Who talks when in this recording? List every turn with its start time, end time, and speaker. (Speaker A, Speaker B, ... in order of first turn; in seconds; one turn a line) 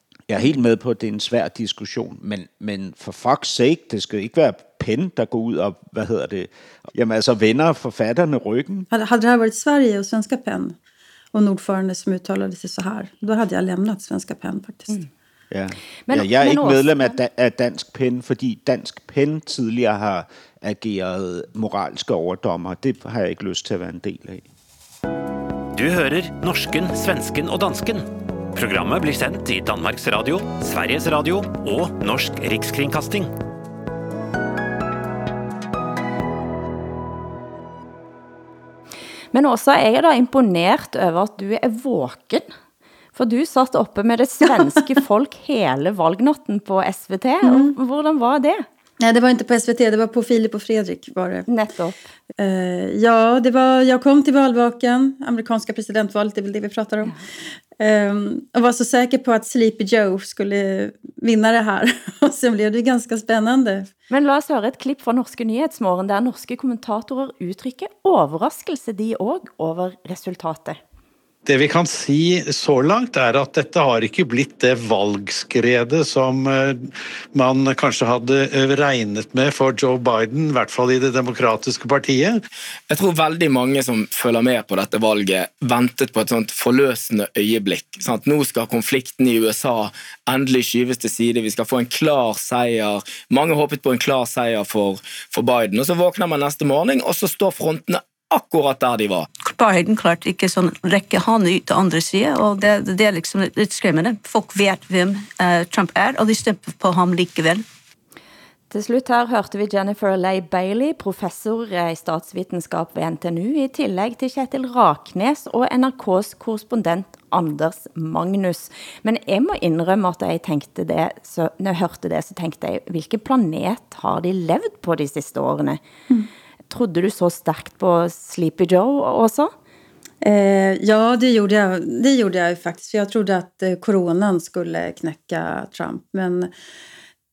Speaker A: 0.3-8.9
Speaker B: 8.9-10.8
Speaker B: 11.3-15.0
Speaker A: 15.5-24.4
Speaker C: 16.1-17.1
Speaker D: 25.7-33.3
Speaker C: 39.3-42.5
Speaker C: 43.2-48.6
Speaker B: 47.4-47.7
Speaker B: 49.0-51.5
Speaker C: 51.5-52.0
Speaker B: 52.4-57.1
Speaker B: 57.8-63.9
Speaker C: 64.1-70.8
Speaker E: 71.5-82.4
Speaker F: 82.9-99.3
Speaker G: 99.4-107.6
Speaker C: 108.7-125.8
Speaker C: 126.7-129.5
Speaker B: 130.2-136.5